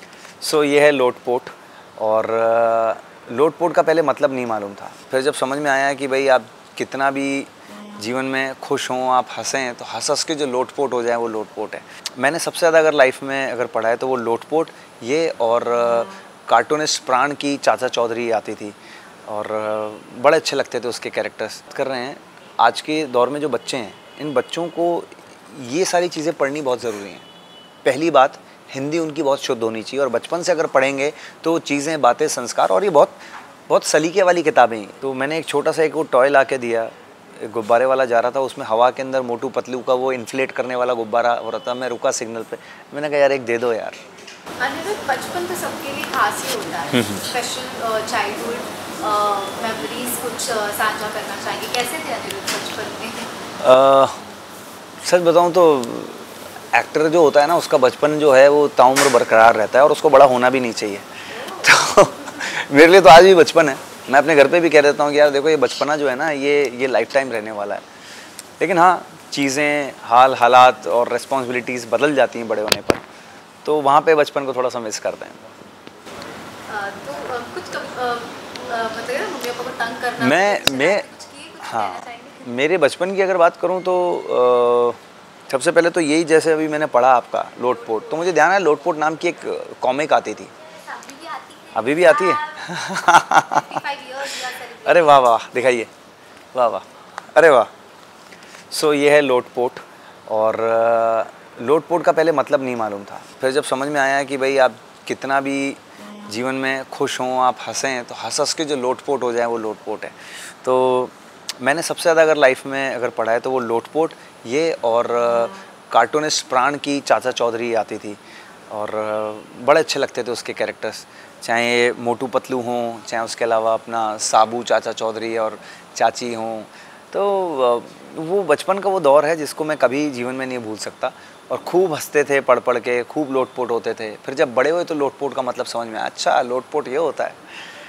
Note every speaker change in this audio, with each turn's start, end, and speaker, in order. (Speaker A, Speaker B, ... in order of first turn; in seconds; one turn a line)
Speaker A: 0.4-18.8
Speaker A: 19.3-27.3
Speaker A: 27.8-33.2
Speaker A: 33.7-44.0
Speaker B: 44.6-53.3
Speaker A: 46.9-47.2
Speaker A: 53.6-54.2
Speaker A: 55.0-67.8
Speaker A: 68.6-73.0
Speaker A: 73.6-75.4
Speaker B: 76.7-82.5
Speaker A: 80.2-81.1
Speaker A: 81.6-85.0
Speaker A: 85.5-90.5
Speaker B: 90.7-92.7
Speaker A: 91.7-95.9
Speaker B: 93.3-95.2
Speaker A: 96.5-97.7
Speaker A: 98.7-118.2
Speaker A: 118.7-137.4